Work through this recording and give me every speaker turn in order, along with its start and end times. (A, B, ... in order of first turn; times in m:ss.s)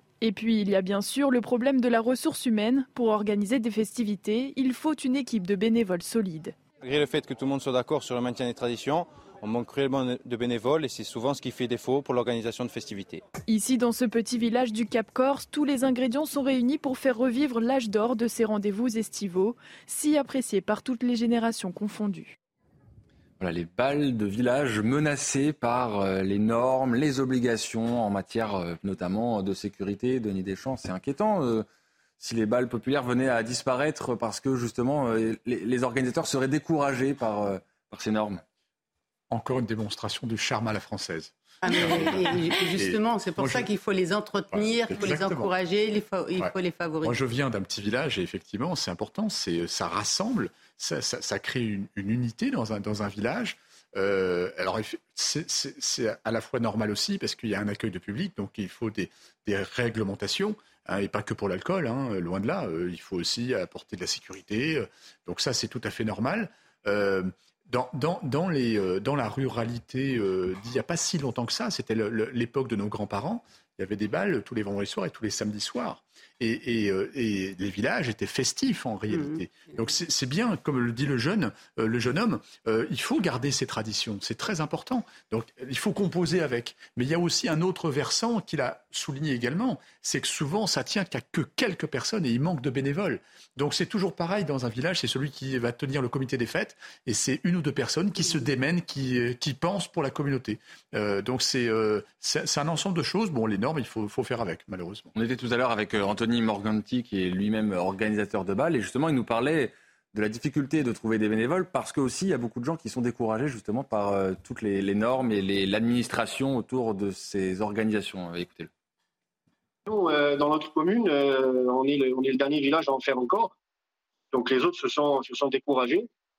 0:00.2-0:06.6 A
0:06.8-0:13.2 B
0:13.5-0:22.4 A
0:23.4-0:31.7 C
0:32.2-0:38.4 C
0:39.3-0:43.7 D
0:41.6-0:47.2 E
0:44.5-0:45.5 D
0:47.0-1:45.1 D
1:19.1-1:19.7 E
1:45.2-1:58.7 C
1:59.9-2:03.5 F
2:04.3-2:06.1 F